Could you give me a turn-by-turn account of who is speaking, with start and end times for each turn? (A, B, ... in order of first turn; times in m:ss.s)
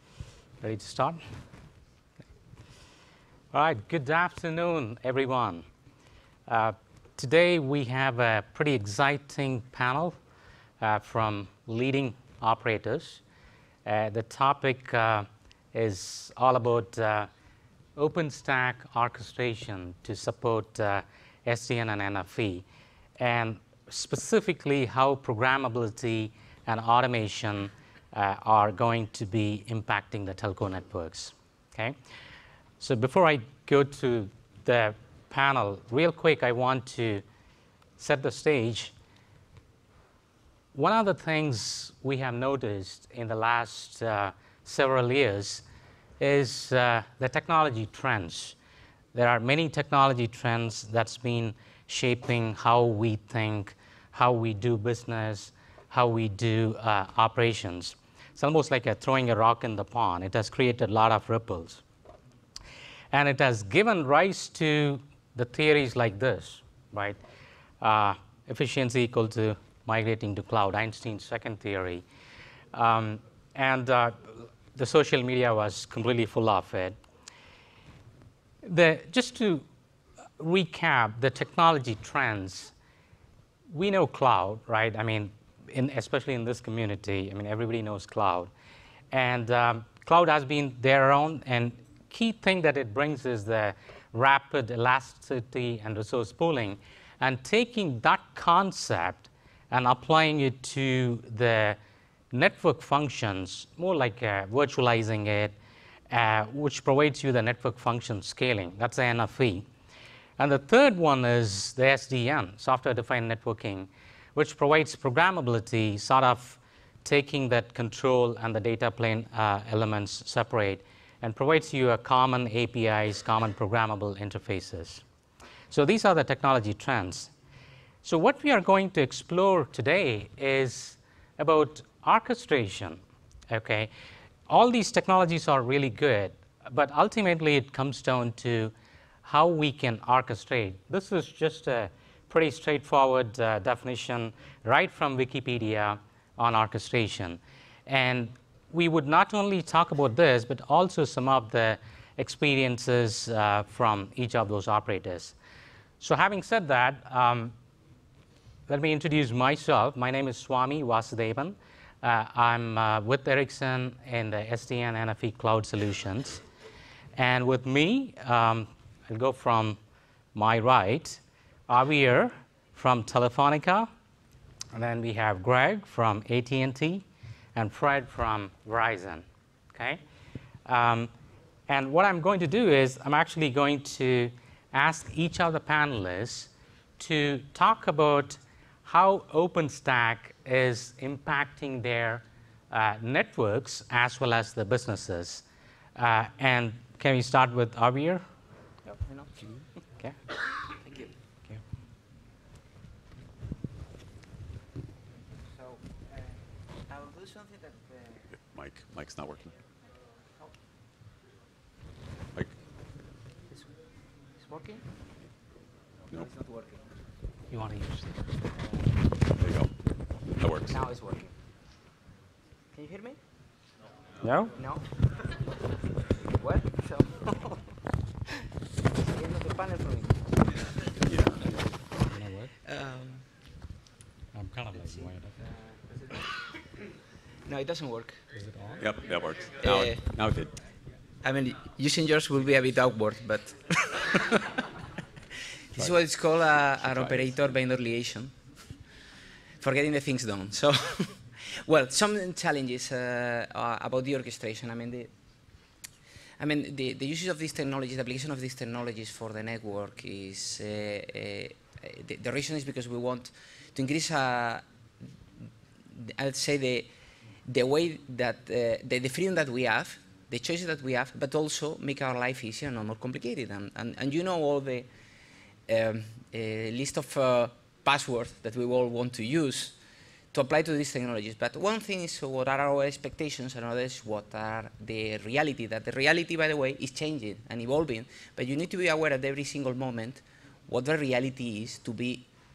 0:00.6-0:01.2 A
0:03.5-0:05.6 A
0:06.5-0:10.2 A
0:10.8-0:13.2 A
0:13.8-0:17.3 A
0:18.0-0:22.6 A
0:23.2-0:32.0 A
0:32.8-0:37.2 A
0:38.0-0:38.9 A
0:40.7-0:45.6 A
0:46.2-0:48.6 A
0:49.1-1:01.8 A
1:03.1-1:07.2 A
1:07.8-1:12.0 A
1:12.7-1:17.0 A
1:18.6-1:19.6 A
1:20.4-1:22.7 A
1:23.7-1:28.5 A
1:29.1-1:41.8 A
1:42.3-1:45.5 A
1:46.1-1:49.7 A
1:50.4-2:05.0 A
2:05.7-2:07.3 A
2:08.0-2:13.9 A
2:14.5-2:18.7 A
2:19.2-2:35.4 A
2:36.0-2:37.5 A
2:38.7-2:46.4 A
2:47.2-2:49.8 A
2:50.3-2:53.9 A
2:54.7-2:57.0 A
2:57.5-3:00.0 A
3:00.6-3:01.1 A
3:01.7-3:15.4 A
3:16.0-3:18.2 A
3:18.8-3:19.3 B
3:20.8-3:21.1 B
3:25.6-3:26.3 B
3:26.9-3:28.2 B
3:28.4-3:29.5 C
3:34.4-3:34.8 B
3:36.1-3:36.8 B
3:37.5-3:38.2 A
3:39.4-3:39.7 C
3:40.4-3:40.8 C
3:40.7-3:41.3 B
3:42.7-3:43.2 B
3:44.2-3:44.5 A
3:44.6-3:44.8 B
3:46.3-3:47.7 B
3:49.0-3:50.3 B
3:51.1-3:51.4 C
3:52.1-3:52.5 A
3:52.7-3:53.2 B
3:54.3-3:55.3 A
3:54.8-3:56.4 B
3:57.4-3:58.2 B
3:58.3-3:58.8 A
3:58.8-4:00.5 C
3:59.6-4:00.0 B
4:01.2-4:04.6 B
4:05.7-4:08.3 B
4:06.8-4:07.3 C
4:09.6-4:15.1 B
4:16.4-4:24.6 B
4:25.9-4:26.9 B
4:27.5-4:34.9 B
4:35.7-4:39.8 B
4:40.3-4:52.3 B